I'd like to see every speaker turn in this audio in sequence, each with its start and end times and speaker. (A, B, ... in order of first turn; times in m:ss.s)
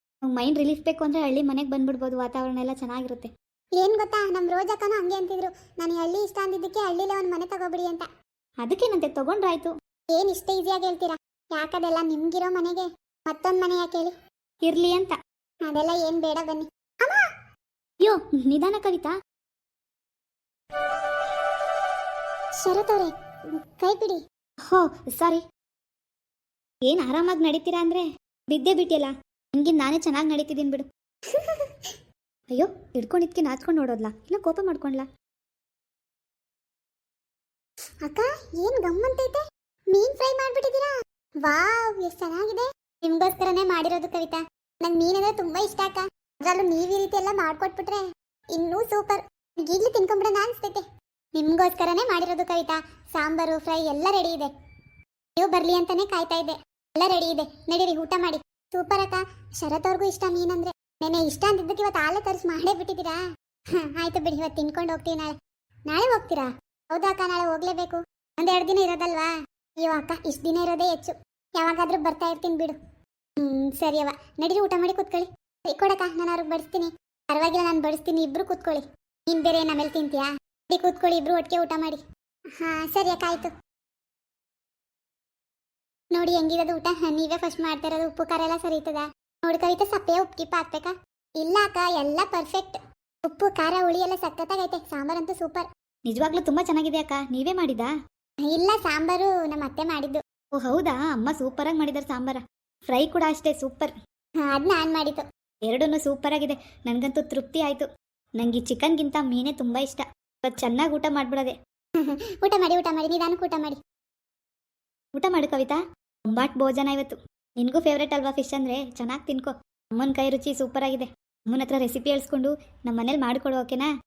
0:00.3-0:03.3 A
0:03.8-0:08.1 B
0:08.6-0:09.7 A
0:10.2-0:14.1 B
0:14.6-0:15.2 A
0:15.7-0:17.2 B
0:18.0-0:19.1 A
0:22.6-0:23.1 B
0:23.8-0:24.2 B
0:24.7-0:25.4 A
0:26.8-0:30.9 A
0:31.3-0:31.9 B
0:32.5-0:35.1 A
0:38.0-0:39.4 B
0:39.9-0:40.9 B
0:41.4-0:48.0 B
0:48.6-0:50.8 B
0:51.4-0:54.5 B
0:55.4-1:03.2 B
1:03.8-1:05.4 B
1:05.9-1:12.8 B
1:13.4-1:22.0 B
1:22.6-1:23.5 B
1:26.1-1:35.7 B
1:36.1-1:37.9 A
1:38.5-1:40.2 B
1:40.6-1:43.9 A
1:44.5-1:45.2 B
1:45.7-1:51.6 A
1:52.4-1:53.8 B
1:55.2-2:03.9 A